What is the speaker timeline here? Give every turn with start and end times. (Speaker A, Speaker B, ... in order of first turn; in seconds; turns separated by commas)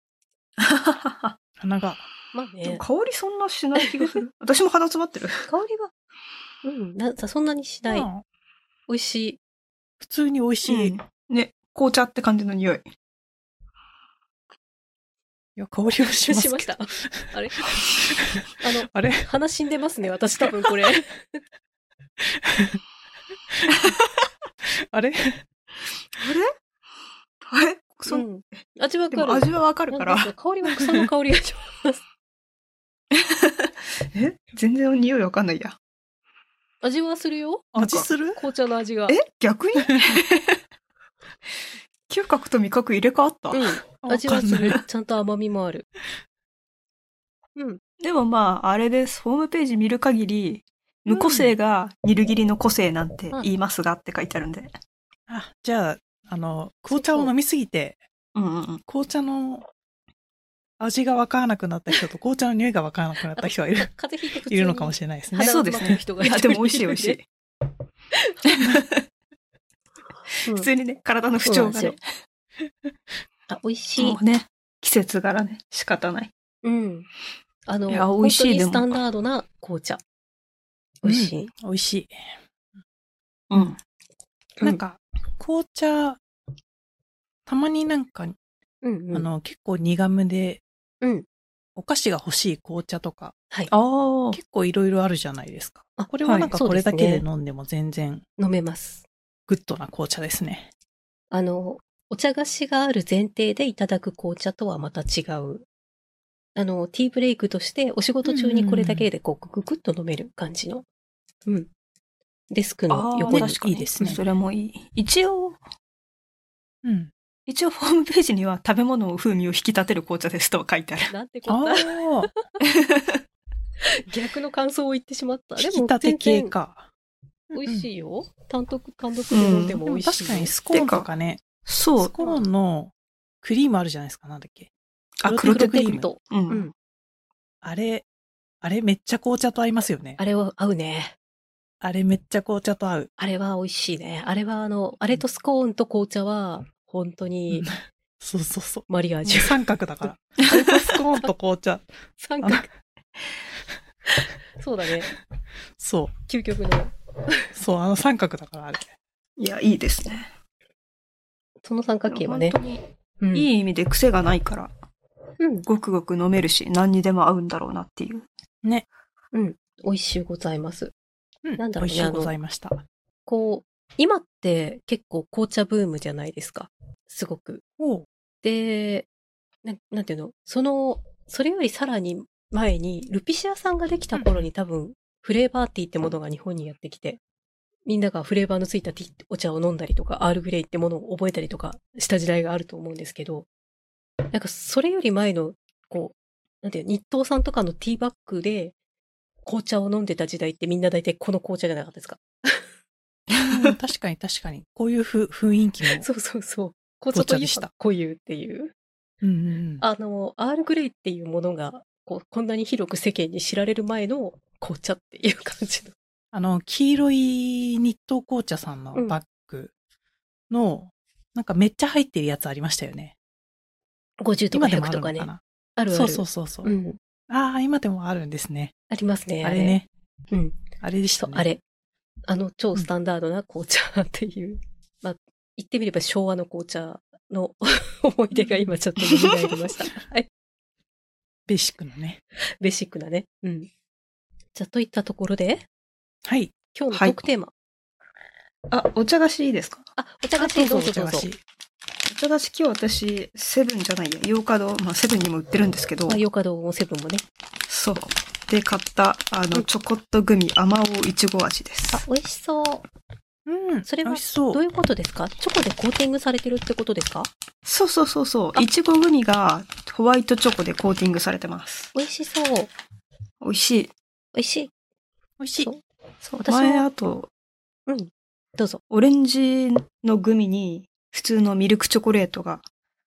Speaker A: 0.6-1.4, Speaker B: 1.6-2.0, Speaker C: 2.3-2.8, Speaker A: 2.6-5.5, Speaker C: 3.8-4.1, Speaker C: 5.4-5.9, Speaker C: 6.6-8.1, Speaker B: 7.9-8.2, Speaker C: 8.9-9.4, Speaker B: 10.0-10.9, Speaker A: 10.7-12.8, Speaker B: 15.6-17.4, Speaker C: 16.2-17.7, Speaker B: 18.4-19.3, Speaker C: 18.6-21.4, Speaker B: 22.2-22.8, Speaker B: 24.6-25.4, Speaker A: 26.2-26.5, Speaker A: 27.5-28.3, Speaker C: 28.1-32.0, Speaker A: 29.1-30.3, Speaker A: 33.1-35.8, Speaker C: 36.8-39.2, Speaker B: 37.7-38.4, Speaker A: 37.8-38.1, Speaker A: 39.1-40.6, Speaker A: 42.1-43.8, Speaker C: 43.5-45.9, Speaker B: 44.0-44.8, Speaker A: 48.0-54.7, Speaker B: 51.1-51.5, Speaker B: 55.3-58.0, Speaker C: 56.9-57.3, Speaker A: 58.4-58.8, Speaker B: 58.9-59.7, Speaker B: 60.8-63.9, Speaker C: 63.4-67.2, Speaker B: 64.5-65.6, Speaker A: 65.4-67.3, Speaker A: 68.5-69.0, Speaker A: 70.5-72.0, Speaker C: 71.5-72.0, Speaker C: 73.5-74.2, Speaker A: 74.0-76.3, Speaker C: 76.6-77.1, Speaker C: 77.7-80.0, Speaker A: 77.9-79.0, Speaker C: 81.0-81.5, Speaker B: 81.0-82.2, Speaker A: 83.5-83.8, Speaker B: 84.6-86.2, Speaker B: 87.5-88.4, Speaker C: 88.8-89.3, Speaker B: 89.1-90.6, Speaker B: 91.8-93.3, Speaker A: 93.7-94.4, Speaker B: 94.3-98.2, Speaker C: 96.0-97.2, Speaker A: 96.2-96.5, Speaker C: 98.4-99.0, Speaker B: 99.5-100.7, Speaker C: 101.3-105.7, Speaker C: 106.6-110.8, Speaker B: 108.2-109.1, Speaker C: 112.5-114.2, Speaker A: 112.9-115.6, Speaker B: 113.3-114.2, Speaker B: 116.8-117.1, Speaker A: 117.5-121.1, Speaker C: 121.1-122.3, Speaker B: 121.5-122.3, Speaker A: 122.7-123.2, Speaker C: 123.9-126.5, Speaker B: 125.6-126.9, Speaker C: 127.5-130.6, Speaker B: 127.5-127.9, Speaker A: 129.3-129.8, Speaker B: 129.8-131.5, Speaker A: 130.7-131.1, Speaker A: 131.7-132.2, Speaker B: 132.0-134.7, Speaker A: 135.2-136.7, Speaker B: 135.2-136.1, Speaker C: 135.4-136.7, Speaker B: 137.6-138.1, Speaker B: 138.6-140.2, Speaker C: 140.2-141.1, Speaker B: 141.8-143.1, Speaker C: 143.2-147.7, Speaker B: 147.5-151.9, Speaker C: 148.9-149.6, Speaker C: 152.2-152.7, Speaker B: 152.4-152.7, Speaker C: 154.2-155.1, Speaker B: 155.8-156.1, Speaker C: 156.3-157.5, Speaker B: 157.5-158.9, Speaker A: 159.4-160.3, Speaker C: 161.6-162.6, Speaker A: 162.1-162.8, Speaker C: 163.2-163.5, Speaker A: 163.3-164.7, Speaker C: 165.4-165.7, Speaker A: 165.7-168.3, Speaker C: 169.3-170.9, Speaker B: 171.4-172.8, Speaker C: 171.6-172.3, Speaker C: 173.3-177.6, Speaker B: 177.8-178.1, Speaker C: 178.4-179.1, Speaker C: 179.6-187.2, Speaker B: 184.1-184.5, Speaker C: 187.9-193.5, Speaker C: 194.3-198.7, Speaker C: 199.5-202.7, Speaker A: 203.3-203.7, Speaker B: 203.4-206.1, Speaker C: 206.0-208.7, Speaker B: 207.1-207.7, Speaker B: 209.2-209.8, Speaker C: 209.8-215.9, Speaker B: 216.3-219.7, Speaker B: 220.5-223.2, Speaker C: 224.2-227.0, Speaker B: 224.5-226.7, Speaker B: 227.3-228.7, Speaker C: 228.9-229.8, Speaker B: 229.4-229.9, Speaker C: 230.3-230.6, Speaker B: 230.8-231.5, Speaker C: 231.2-231.6, Speaker C: 232.3-240.3, Speaker B: 238.4-238.7, Speaker B: 241.5-242.2, Speaker C: 242.6-243.7, Speaker C: 244.6-245.7, Speaker B: 246.2-246.6, Speaker C: 246.7-247.5, Speaker A: 246.9-247.2, Speaker A: 248.7-249.9, Speaker C: 250.0-251.3, Speaker B: 250.4-251.4, Speaker A: 252.1-256.2, Speaker C: 256.1-257.2, Speaker A: 257.7-262.0, Speaker C: 261.9-262.9, Speaker B: 263.5-264.6, Speaker C: 263.9-267.3, Speaker A: 267.6-271.9, Speaker C: 271.9-272.7, Speaker A: 273.4-273.9, Speaker C: 274.4-274.7, Speaker B: 275.4-275.7, Speaker A: 276.2-277.3, Speaker C: 276.4-276.9, Speaker C: 277.9-278.8, Speaker A: 278.9-282.6